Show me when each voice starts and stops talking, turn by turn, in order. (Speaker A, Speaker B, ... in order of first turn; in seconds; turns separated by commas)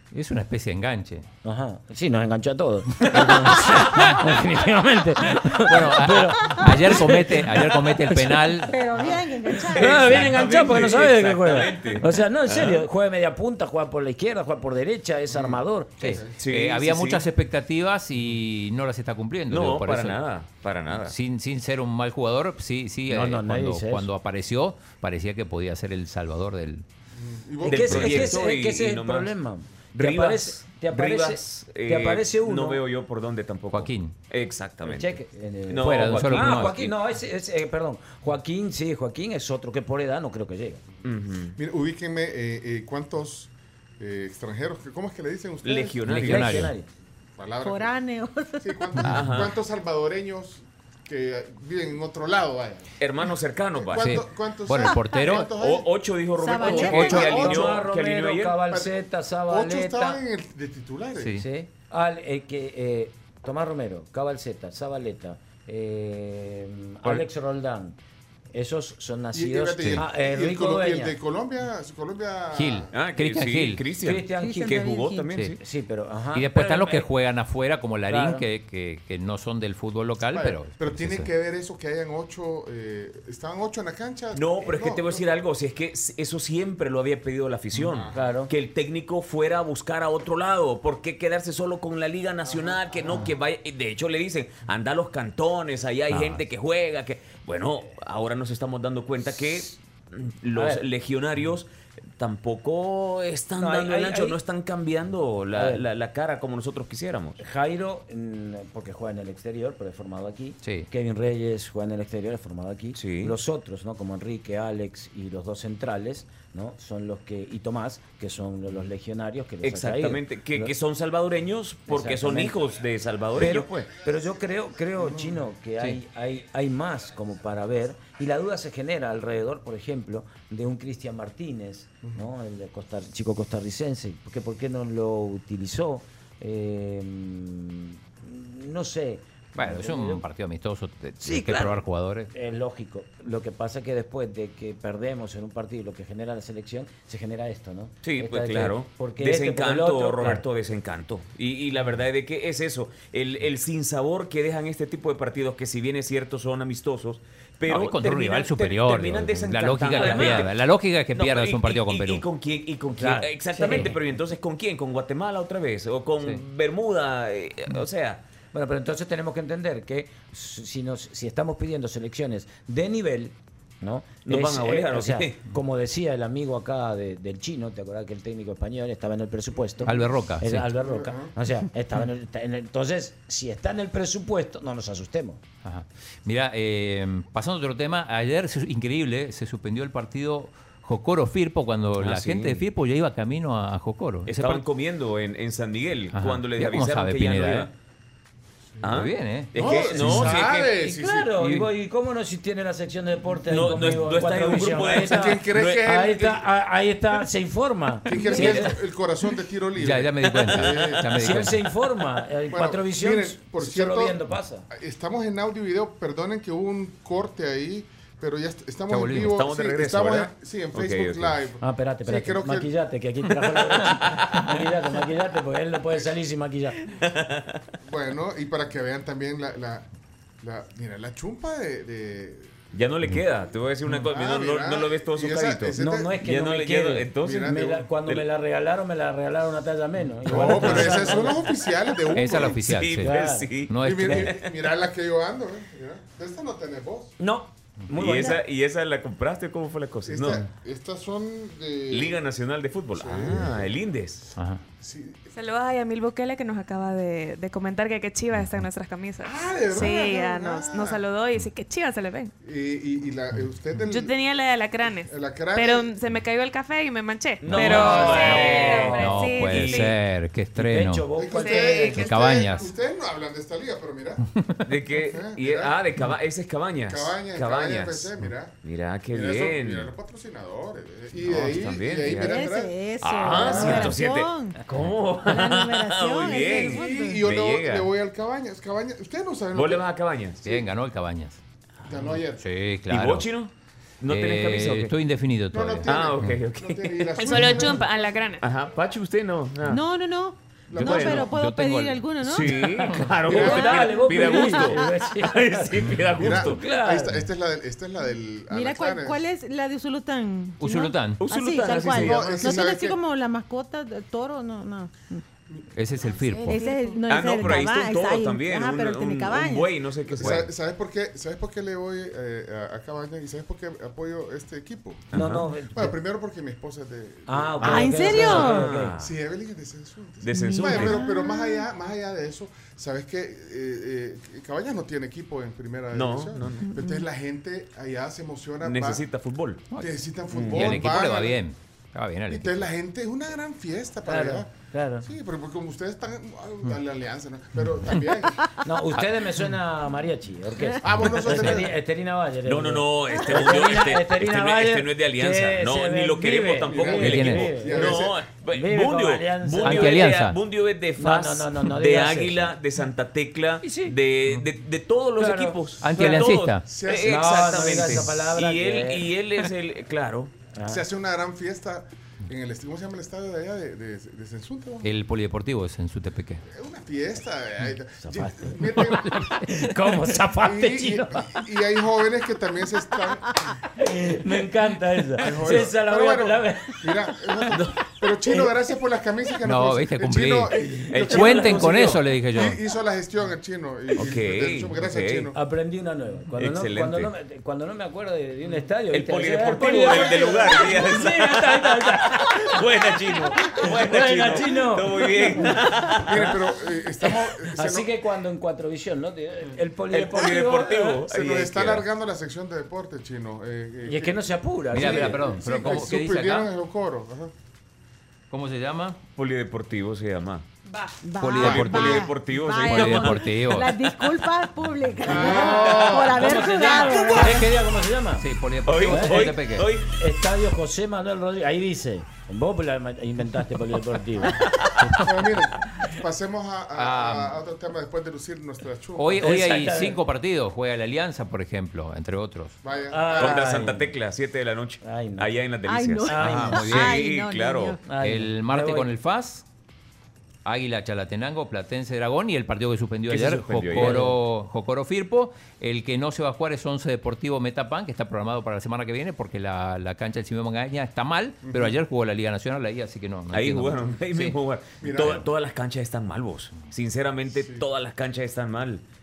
Speaker A: 0.1-1.3, Speaker B: 1.4-8.5, Speaker A: 5.6-8.8, Speaker C: 8.7-10.2, Speaker D: 9.6-12.8, Speaker B: 9.7-16.1, Speaker E: 15.3-16.4, Speaker A: 16.0-20.2, Speaker D: 16.4-17.2, Speaker D: 19.5-21.1, Speaker A: 21.0-26.8, Speaker B: 23.1-24.1, Speaker E: 27.2-28.3, Speaker D: 27.6-29.3, Speaker B: 27.6-32.8, Speaker D: 29.9-37.0, Speaker A: 33.7-34.1, Speaker B: 34.8-40.8, Speaker A: 35.8-36.8, Speaker D: 41.0-41.5, Speaker E: 41.6-46.0, Speaker D: 45.6-46.7, Speaker A: 46.1-46.7, Speaker B: 46.1-46.9, Speaker E: 47.4-48.0, Speaker C: 47.6-48.9, Speaker E: 48.6-52.9, Speaker D: 49.0-49.5, Speaker D: 53.0-54.2, Speaker E: 53.8-55.9, Speaker A: 54.0-55.5, Speaker D: 55.2-58.6, Speaker C: 56.4-57.4, Speaker E: 56.6-57.8, Speaker B: 56.7-60.2, Speaker A: 56.9-57.2, Speaker E: 59.5-61.4, Speaker A: 61.2-61.5, Speaker B: 61.4-68.0, Speaker B: 68.5-71.2, Speaker E: 69.3-72.9, Speaker A: 72.5-73.8, Speaker D: 72.9-75.6, Speaker B: 74.0-74.9, Speaker C: 74.4-75.3, Speaker B: 75.6-77.1, Speaker A: 76.3-81.3, Speaker B: 78.1-78.5, Speaker E: 80.3-85.2, Speaker D: 84.3-107.4, Speaker E: 87.8-88.3, Speaker B: 88.1-88.5, Speaker E: 92.5-93.2, Speaker A: 96.1-96.4, Speaker B: 100.5-100.8, Speaker B: 103.6-104.4, Speaker B: 105.5-105.9, Speaker B: 107.4-120.7, Speaker A: 110.6-110.9, Speaker D: 113.0-113.4, Speaker D: 119.6-123.7, Speaker B: 121.9-122.6, Speaker B: 123.3-140.2, Speaker E: 125.0-125.4, Speaker A: 139.6-142.3, Speaker B: 141.2-150.4, Speaker D: 148.0-168.2, Speaker A: 157.7-162.2, Speaker B: 159.9-160.4, Speaker B: 162.9-163.9, Speaker B: 168.5-185.4, Speaker D: 174.3-175.4, Speaker E: 179.7-180.1, Speaker A: 179.9-180.7, Speaker E: 180.8-181.3, Speaker A: 185.6-194.6, Speaker D: 192.0-192.7, Speaker D: 194.3-197.7, Speaker A: 196.1-197.7, Speaker E: 198.8-199.0, Speaker D: 198.8-200.7, Speaker A: 198.9-200.3, Speaker E: 199.6-201.3, Speaker B: 200.8-208.8, Speaker D: 203.5-205.8, Speaker E: 204.9-206.4, Speaker E: 208.1-211.1, Speaker A: 209.8-211.6, Speaker B: 211.2-214.7, Speaker E: 212.5-214.2, Speaker E: 214.7-222.7, Speaker A: 218.9-219.4, Speaker D: 219.2-221.4, Speaker B: 221.6-226.8, Speaker D: 223.7-224.1, Speaker D: 226.9-227.6, Speaker E: 227.8-229.9, Speaker E: 230.4-232.6, Speaker D: 232.7-238.2, Speaker E: 234.1-236.1, Speaker B: 235.8-241.4, Speaker E: 237.2-237.8, Speaker E: 240.3-242.7, Speaker A: 240.7-240.9, Speaker A: 242.1-243.1, Speaker D: 242.6-244.4, Speaker B: 243.0-243.5, Speaker A: 243.7-244.3, Speaker E: 243.8-247.1, Speaker B: 247.2-248.4, Speaker D: 247.9-250.4, Speaker E: 250.1-252.2, Speaker D: 251.9-254.2, Speaker E: 252.9-253.7, Speaker A: 254.4-254.6, Speaker E: 254.8-255.3, Speaker F: 255.3-262.3, Speaker E: 259.2-261.0, Speaker E: 262.4-264.2, Speaker F: 263.9-269.9, Speaker E: 265.0-265.9, Speaker D: 267.4-270.0, Speaker B: 267.4-269.1, Speaker A: 267.5-271.1, Speaker B: 270.6-272.1, Speaker E: 271.2-274.2, Speaker F: 271.4-271.9, Speaker A: 271.9-272.7, Speaker D: 274.6-278.1, Speaker E: 275.0-275.8, Speaker E: 276.9-278.5, Speaker D: 278.6-279.9, Speaker E: 279.1-284.0, Speaker D: 281.2-282.5, Speaker C: 282.1-284.6, Speaker D: 283.0-287.9, Speaker C: 285.2-287.2, Speaker E: 286.4-289.9, Speaker D: 289.5-290.4, Speaker A: 290.4-291.4, Speaker E: 291.9-292.4, Speaker A: 292.4-293.3, Speaker D: 292.9-294.9, Speaker A: 294.1-296.4, Speaker E: 295.5-298.1, Speaker D: 295.8-297.8, Speaker F: 297.2-298.4, Speaker D: 298.4-299.8, Speaker C: 299.7-305.1, Speaker E: 300.7-301.2, Speaker D: 300.7-301.3, Speaker A: 300.8-302.0, Speaker D: 302.2-306.6, Speaker B: 303.2-307.2, Speaker E: 306.2-309.2, Speaker C: 308.5-315.2, Speaker A: 310.6-311.2, Speaker D: 311.2-312.5, Speaker E: 311.9-313.0, Speaker A: 315.7-316.6, Speaker C: 316.1-319.7, Speaker D: 317.1-320.5, Speaker E: 320.1-325.1, Speaker D: 325.1-325.5, Speaker B: 325.1-326.0, Speaker E: 325.7-339.0, Speaker B: 327.3-329.0, Speaker C: 327.6-328.7, Speaker D: 328.1-329.1, Speaker D: 330.2-331.1, Speaker C: 330.4-331.7, Speaker D: 335.9-336.7, Speaker C: 336.6-337.1, Speaker D: 338.6-339.6, Speaker E: 339.8-341.4, Speaker D: 340.3-341.0, Speaker A: 340.5-342.7, Speaker E: 342.3-344.5, Speaker B: 344.1-345.1, Speaker E: 345.0-348.4, Speaker B: 348.6-358.0, Speaker E: 350.8-351.7, Speaker D: 352.5-370.3, Speaker E: 356.6-358.2, Speaker A: 357.0-357.5, Speaker B: 358.5-360.1, Speaker A: 359.6-360.4, Speaker B: 361.0-362.6, Speaker B: 363.6-363.9, Speaker B: 365.2-366.0, Speaker A: 365.8-366.6, Speaker E: 366.7-367.7, Speaker B: 367.0-369.1, Speaker B: 370.6-370.8, Speaker E: 370.7-374.9, Speaker A: 374.8-376.4, Speaker E: 376.5-379.2, Speaker B: 378.0-381.4, Speaker E: 380.4-383.4, Speaker B: 383.8-386.8, Speaker E: 385.2-391.7, Speaker A: 389.4-390.5, Speaker D: 390.9-392.0, Speaker B: 391.0-391.8, Speaker A: 391.1-392.6, Speaker E: 392.3-395.4, Speaker D: 393.9-395.3, Speaker B: 395.3-402.6, Speaker D: 396.4-397.1, Speaker D: 398.9-406.3, Speaker B: 403.1-405.6, Speaker E: 406.1-407.9, Speaker B: 407.5-410.9, Speaker D: 409.9-411.9, Speaker E: 411.1-414.2, Speaker B: 413.9-415.4, Speaker E: 414.7-417.3, Speaker A: 414.7-416.5, Speaker A: 418.3-419.0, Speaker D: 419.2-420.5, Speaker C: 421.0-427.5, Speaker A: 421.2-422.1, Speaker D: 421.4-423.3, Speaker E: 421.4-421.7, Speaker A: 422.6-423.8, Speaker E: 425.0-426.3, Speaker B: 425.2-428.2, Speaker D: 425.7-426.0, Speaker A: 428.2-429.7, Speaker D: 428.6-429.9, Speaker B: 428.9-429.2, Speaker B: 430.0-434.4, Speaker D: 434.4-435.0, Speaker E: 435.0-439.5, Speaker A: 436.8-437.4, Speaker A: 439.0-442.6, Speaker B: 439.2-440.0, Speaker E: 442.6-443.5, Speaker B: 442.9-443.9, Speaker D: 443.1-447.8, Speaker B: 444.8-445.3, Speaker C: 445.7-447.8, Speaker B: 446.1-446.7, Speaker A: 446.2-447.0, Speaker B: 447.8-448.9, Speaker A: 448.0-449.4, Speaker A: 450.4-464.4, Speaker D: 453.1-454.1, Speaker B: 453.7-454.2, Speaker E: 461.4-461.8, Speaker D: 463.3-468.8, Speaker E: 464.8-465.3, Speaker E: 467.3-467.6